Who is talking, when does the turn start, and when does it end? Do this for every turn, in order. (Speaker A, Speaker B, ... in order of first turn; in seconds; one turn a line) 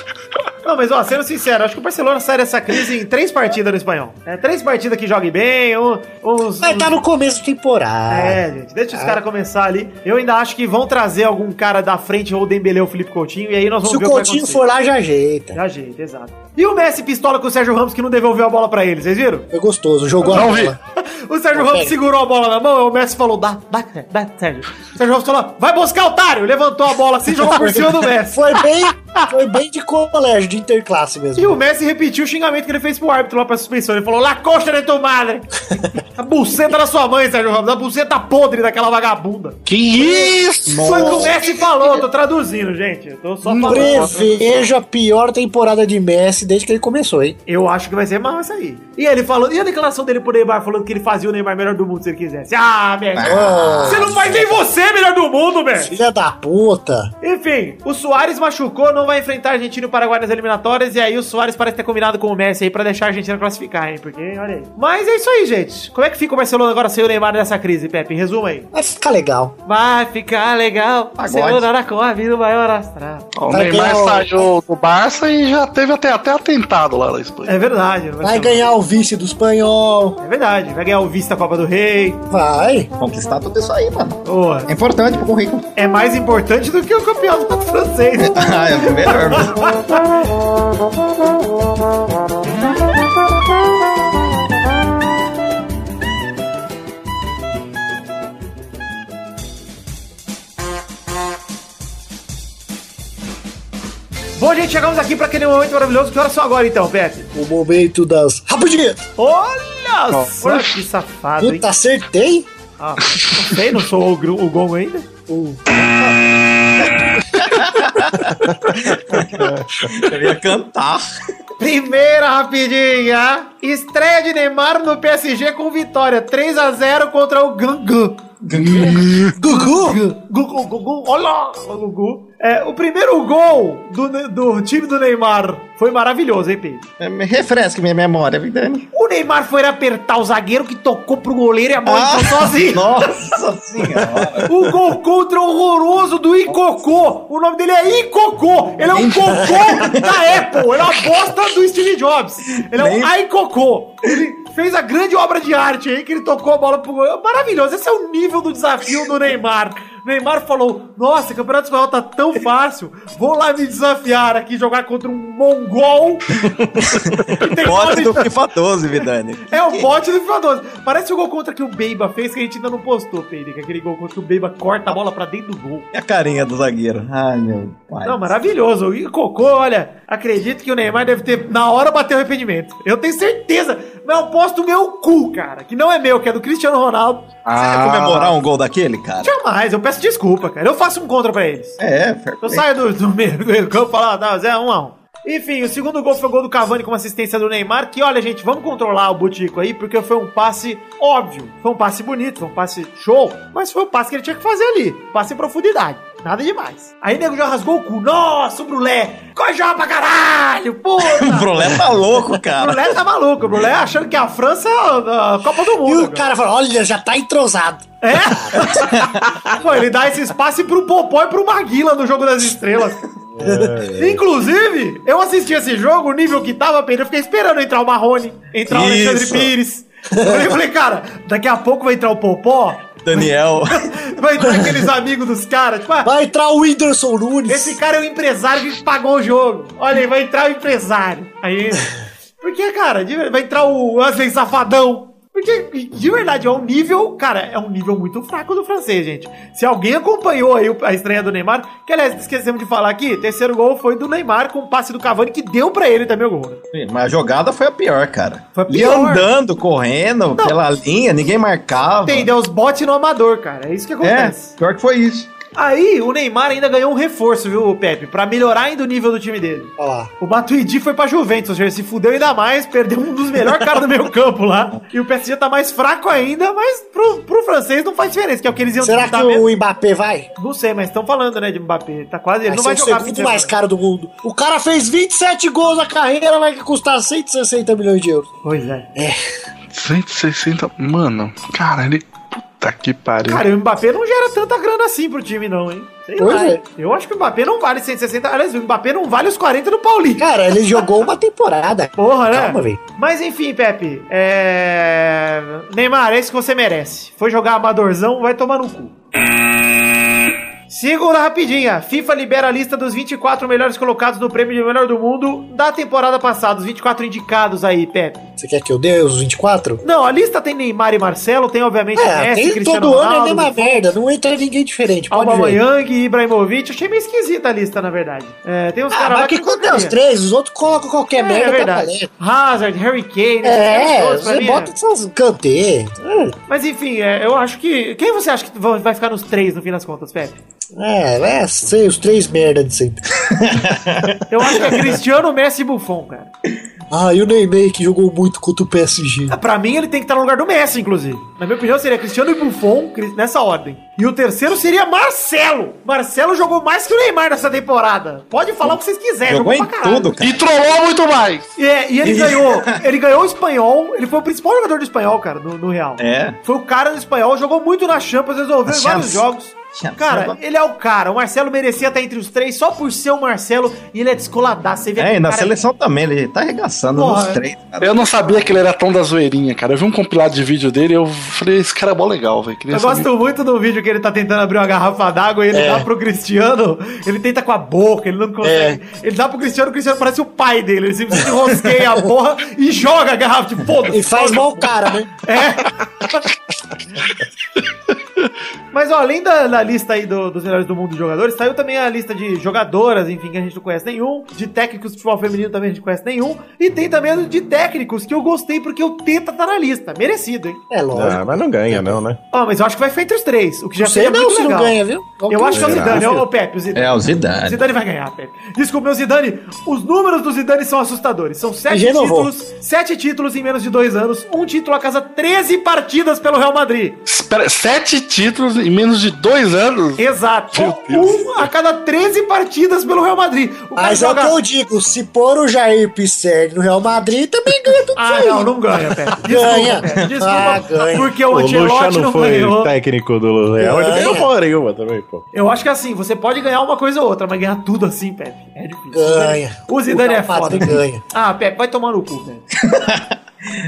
Speaker A: 0.6-7.0
Speaker B: 6.6-8.4
Speaker A: 8.1-14.6
Speaker B: 8.9-9.2
Speaker B: 13.8-15.6
Speaker A: 15.5-19.5
Speaker B: 19.5-20.8
Speaker C: 20.3-20.8
Speaker A: 21.0-28.6
Speaker B: 21.6-21.9
Speaker B: 27.4-31.6
Speaker A: 31.4-40.3
Speaker C: 39.6-41.2
Speaker B: 40.7-41.3
Speaker D: 40.8-41.3
Speaker A: 40.8-44.5
Speaker C: 43.5-44.1
Speaker B: 43.6-47.4
Speaker A: 47.5-55.9
Speaker D: 53.1-54.4
Speaker B: 53.2-54.4
Speaker B: 55.8-57.1
Speaker A: 57.2-68.7
Speaker B: 68.7-69.5
Speaker A: 69.6-73.3
Speaker D: 71.2-71.7
Speaker C: 73.3-77.5
Speaker B: 73.5-74.5
Speaker A: 77.5-78.7
Speaker B: 78.2-80.2
Speaker A: 80.2-82.2
Speaker B: 82.3-82.9
Speaker D: 83.0-85.7
Speaker A: 84.3-84.7
Speaker A: 85.8-89.8
Speaker D: 88.2-89.6
Speaker A: 104.4-107.3
Speaker B: 107.3-109.0
Speaker A: 109.2-111.7
Speaker C: 110.1-110.7
Speaker B: 111.4-112.5
Speaker A: 112.8-115.1
Speaker B: 115.3-115.6
Speaker D: 115.7-116.2
Speaker D: 116.8-121.1
Speaker A: 121.6-128.2
Speaker D: 128.4-129.1
Speaker C: 128.6-129.3
Speaker B: 129.4-130.0
Speaker A: 129.4-136.8
Speaker D: 137.0-138.9
Speaker A: 138.9-142.9
Speaker D: 141.9-144.7
Speaker A: 144.5-166.3
Speaker D: 148.9-150.6
Speaker D: 152.7-153.1
Speaker D: 166.8-169.9
Speaker A: 167.4-168.3
Speaker A: 169.5-175.9
Speaker D: 175.9-178.3
Speaker A: 178.0-187.4
Speaker C: 187.5-188.3
Speaker D: 187.6-189.3
Speaker A: 189.2-191.8
Speaker D: 191.8-192.6
Speaker A: 192.4-211.8
Speaker D: 211.0-212.9
Speaker A: 212.6-216.2
Speaker B: 215.8-218.6
Speaker A: 218.0-219.0
Speaker D: 218.6-219.2
Speaker A: 219.5-223.0
Speaker E: 223.4-224.2
Speaker B: 223.4-223.8
Speaker A: 224.0-236.1
Speaker D: 228.7-229.5
Speaker D: 233.0-233.9
Speaker B: 236.1-237.8
Speaker A: 237.5-256.6
Speaker D: 256.7-262.3
Speaker A: 258.6-259.3
Speaker A: 262.0-264.6
Speaker D: 264.0-265.3
Speaker A: 265.6-279.5
Speaker B: 269.8-270.1
Speaker B: 278.8-280.3
Speaker A: 280.4-283.5
Speaker B: 282.5-288.3
Speaker A: 288.4-288.9
Speaker C: 289.7-293.5
Speaker A: 293.2-300.9
Speaker B: 296.2-296.6
Speaker B: 300.2-302.8
Speaker A: 302.0-308.9
Speaker A: 310.7-318.3
Speaker B: 318.4-319.8
Speaker A: 319.8-323.8
Speaker B: 322.0-325.6
Speaker A: 325.1-330.0
Speaker B: 328.9-332.1
Speaker A: 331.2-334.7
Speaker B: 333.4-336.4
Speaker A: 336.5-340.4
Speaker B: 340.8-343.0
Speaker D: 343.3-344.2
Speaker A: 344.3-346.3
Speaker B: 346.9-349.4
Speaker A: 349.3-360.1
Speaker D: 358.6-360.5
Speaker C: 360.2-361.5
Speaker A: 361.6-375.6
Speaker D: 362.0-362.8
Speaker D: 366.0-366.4
Speaker D: 368.7-370.4
Speaker D: 375.0-378.5
Speaker A: 376.9-377.4
Speaker C: 377.8-383.1
Speaker A: 382.7-396.2
Speaker B: 385.5-385.9
Speaker B: 388.4-388.8
Speaker B: 393.9-395.1
Speaker A: 398.7-410.6
Speaker B: 410.7-411.9
Speaker E: 410.9-412.2
Speaker A: 412.3-414.8
Speaker B: 413.8-416.2
Speaker A: 415.3-427.0
Speaker E: 415.6-416.0
Speaker D: 416.8-417.6
Speaker B: 421.7-422.3
Speaker C: 427.1-431.3
Speaker A: 430.0-434.4
Speaker B: 433.8-438.5
Speaker A: 438.0-442.7
Speaker B: 439.1-441.1
Speaker E: 441.3-445.2
Speaker B: 443.6-444.3
Speaker A: 445.3-452.4
Speaker B: 448.9-451.0
Speaker D: 452.7-453.1